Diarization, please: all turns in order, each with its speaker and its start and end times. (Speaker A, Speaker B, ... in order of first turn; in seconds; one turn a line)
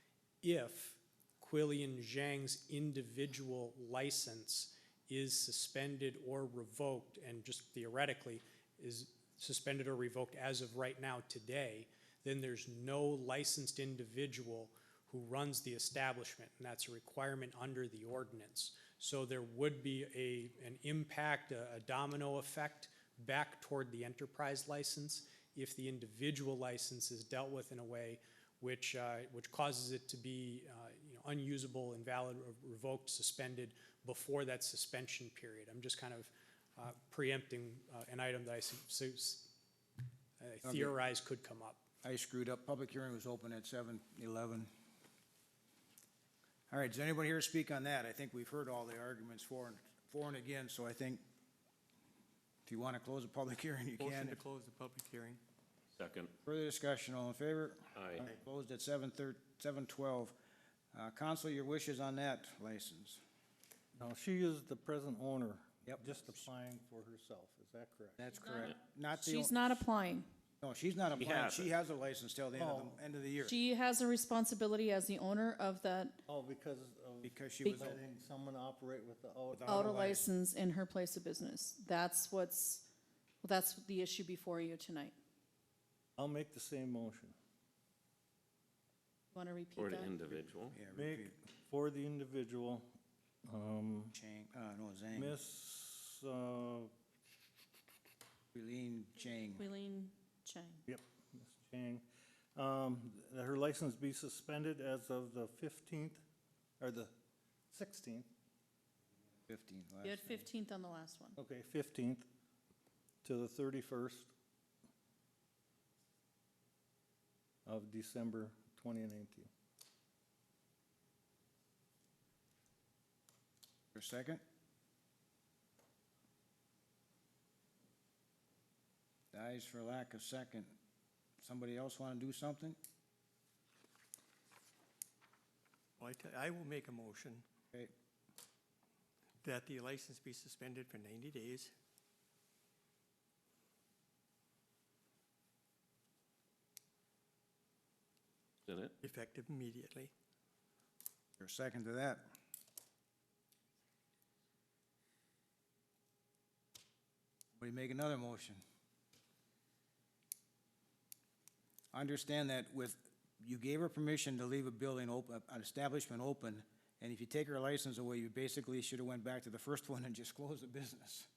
Speaker A: 0.4-39.5
Speaker A: 40.4-41.8
Speaker B: 40.6-40.9
Speaker B: 42.0-44.7
Speaker B: 46.7-51.2
Speaker B: 52.7-54.4
Speaker C: 54.0-55.4
Speaker D: 56.0-56.3
Speaker B: 56.5-60.4
Speaker D: 58.0-58.3
Speaker B: 60.9-63.2
Speaker E: 64.0-68.3
Speaker B: 65.9-66.4
Speaker B: 68.2-69.6
Speaker F: 68.5-70.3
Speaker B: 70.6-73.6
Speaker D: 71.2-71.7
Speaker E: 72.5-73.0
Speaker F: 73.4-76.2
Speaker E: 76.3-80.2
Speaker B: 77.2-78.0
Speaker B: 79.5-80.3
Speaker F: 79.7-82.9
Speaker F: 83.4-85.2
Speaker E: 86.2-87.4
Speaker F: 89.3-90.1
Speaker D: 89.8-90.8
Speaker B: 90.7-91.3
Speaker E: 90.9-92.9
Speaker E: 93.5-94.2
Speaker B: 94.1-95.4
Speaker E: 95.2-96.9
Speaker B: 98.5-99.7
Speaker F: 99.6-100.8
Speaker E: 100.9-102.0
Speaker E: 102.6-106.2
Speaker E: 106.8-107.1
Speaker E: 107.7-108.3
Speaker B: 109.5-110.4
Speaker F: 110.0-111.3
Speaker E: 111.4-112.3
Speaker E: 113.2-114.3
Speaker E: 117.7-119.5
Speaker B: 124.0-124.4
Speaker B: 129.3-130.8
Speaker B: 131.4-132.8
Speaker C: 136.0-137.4
Speaker C: 139.4-141.7
Speaker D: 148.7-148.9
Speaker C: 149.0-150.1
Speaker B: 151.4-152.3
Speaker B: 157.6-158.6
Speaker B: 161.9-171.3